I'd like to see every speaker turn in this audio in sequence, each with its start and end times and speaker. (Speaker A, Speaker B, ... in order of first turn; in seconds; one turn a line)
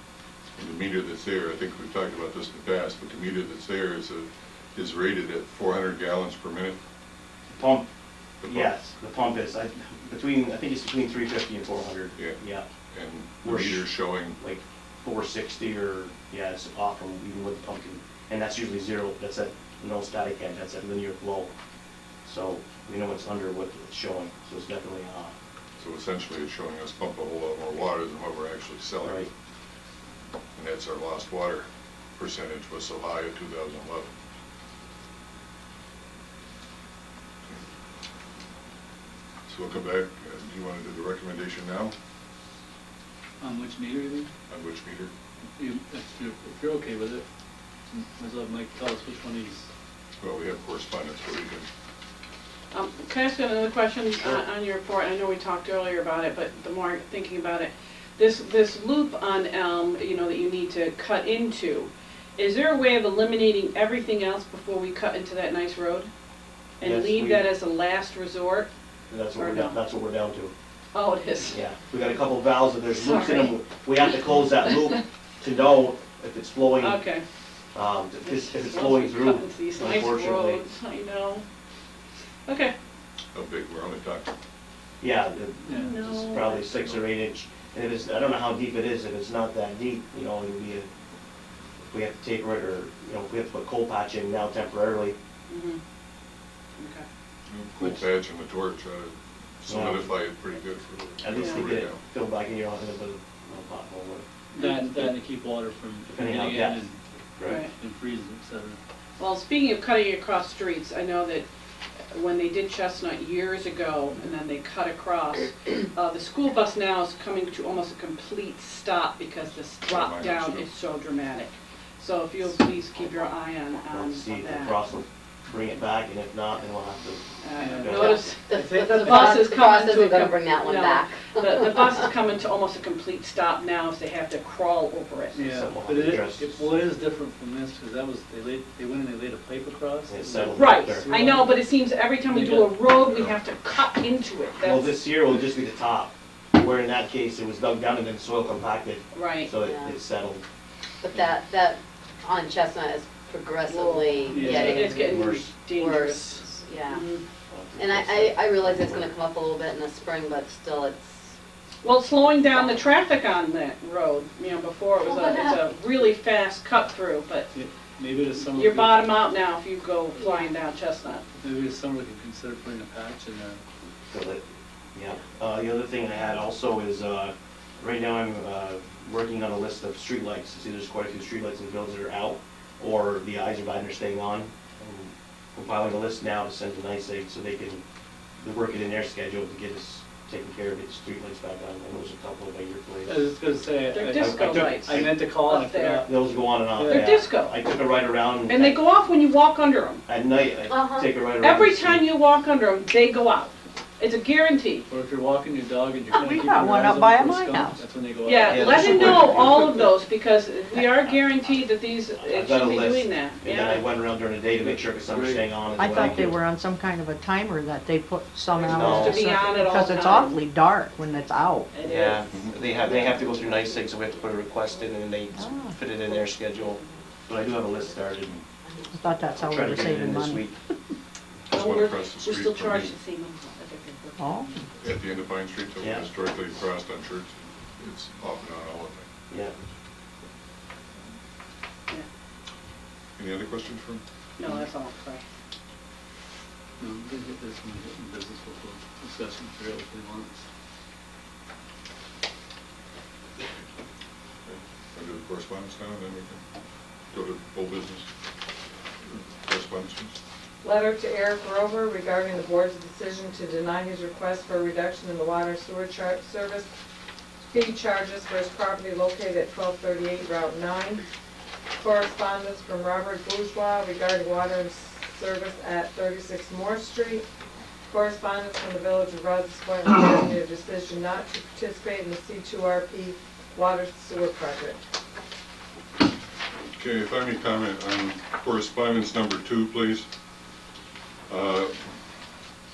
Speaker A: 0.6-6.8
Speaker B: 7.5-7.9
Speaker A: 8.4-8.8
Speaker B: 8.4-12.7
Speaker A: 12.9-14.4
Speaker B: 13.4-21.5
Speaker B: 22.2-25.3
Speaker A: 25.8-29.3
Speaker B: 29.0-29.3
Speaker A: 30.6-34.1
Speaker A: 39.5-41.9
Speaker C: 43.4-44.3
Speaker A: 44.5-45.1
Speaker C: 45.6-47.2
Speaker C: 47.9-49.7
Speaker A: 50.2-51.7
Speaker D: 52.7-66.1
Speaker D: 66.8-68.7
Speaker B: 66.8-67.5
Speaker B: 69.1-70.5
Speaker D: 69.4-69.8
Speaker D: 70.9-71.6
Speaker B: 71.5-77.0
Speaker D: 72.9-73.6
Speaker D: 76.8-77.2
Speaker B: 77.7-80.7
Speaker D: 78.2-81.5
Speaker D: 82.5-82.7
Speaker A: 83.3-84.3
Speaker B: 85.0-90.9
Speaker D: 85.7-86.7
Speaker C: 85.7-85.9
Speaker A: 86.6-87.0
Speaker B: 91.9-95.2
Speaker D: 95.5-95.8
Speaker D: 96.8-97.0
Speaker A: 97.5-102.0
Speaker B: 97.8-98.0
Speaker B: 99.7-100.1
Speaker B: 101.2-104.3
Speaker D: 101.4-101.6
Speaker C: 104.5-107.0
Speaker D: 104.6-104.9
Speaker B: 106.1-107.6
Speaker C: 107.6-108.8
Speaker D: 109.2-111.5
Speaker D: 112.1-124.8
Speaker A: 119.8-120.7
Speaker B: 123.9-127.2
Speaker D: 127.4-135.5
Speaker C: 127.6-129.5
Speaker B: 127.8-128.2
Speaker E: 128.1-132.0
Speaker C: 135.3-141.6
Speaker B: 135.4-136.7
Speaker B: 140.1-141.3
Speaker D: 140.5-145.0
Speaker C: 142.3-143.0
Speaker B: 144.6-150.4
Speaker D: 149.1-149.5
Speaker E: 149.6-150.0
Speaker E: 151.0-154.9
Speaker D: 153.7-157.2
Speaker C: 154.3-155.1
Speaker B: 154.5-155.5
Speaker E: 155.7-157.1
Speaker B: 157.5-159.1
Speaker E: 157.8-161.3
Speaker D: 161.8-167.5
Speaker E: 162.4-162.8
Speaker E: 165.1-165.6
Speaker C: 167.5-169.1
Speaker D: 168.5-171.2
Speaker C: 171.4-173.6
Speaker B: 174.1-187.8
Speaker B: 188.4-193.2
Speaker C: 193.1-196.1
Speaker D: 193.9-196.1
Speaker B: 194.2-195.1
Speaker B: 195.8-198.8
Speaker C: 196.8-197.2
Speaker D: 196.8-197.6
Speaker D: 198.5-200.0
Speaker B: 200.1-202.0
Speaker E: 200.7-201.1
Speaker D: 201.4-204.9
Speaker C: 204.9-209.9
Speaker E: 206.1-207.6
Speaker F: 206.4-207.8
Speaker D: 208.2-213.9
Speaker B: 208.5-209.7
Speaker B: 211.0-216.4
Speaker C: 214.6-215.5
Speaker F: 215.8-221.7
Speaker D: 218.5-220.4
Speaker E: 218.6-219.7
Speaker B: 218.7-219.2
Speaker D: 221.7-223.6
Speaker B: 221.8-228.3
Speaker A: 222.3-222.6
Speaker F: 222.5-228.1
Speaker F: 228.6-230.4
Speaker B: 229.4-230.6
Speaker E: 229.4-230.1
Speaker A: 231.5-233.0
Speaker D: 231.5-234.6
Speaker F: 234.2-234.5
Speaker A: 234.8-239.1
Speaker B: 235.8-236.1
Speaker A: 243.2-244.0
Speaker D: 244.4-245.2
Speaker C: 246.8-250.4
Speaker A: 254.4-256.4
Speaker A: 257.1-258.1
Speaker A: 259.1-260.2
Speaker G: 260.6-266.7
Speaker G: 267.5-271.0
Speaker G: 271.8-277.2
Speaker G: 277.9-284.8
Speaker A: 286.8-290.1
Speaker A: 291.3-291.8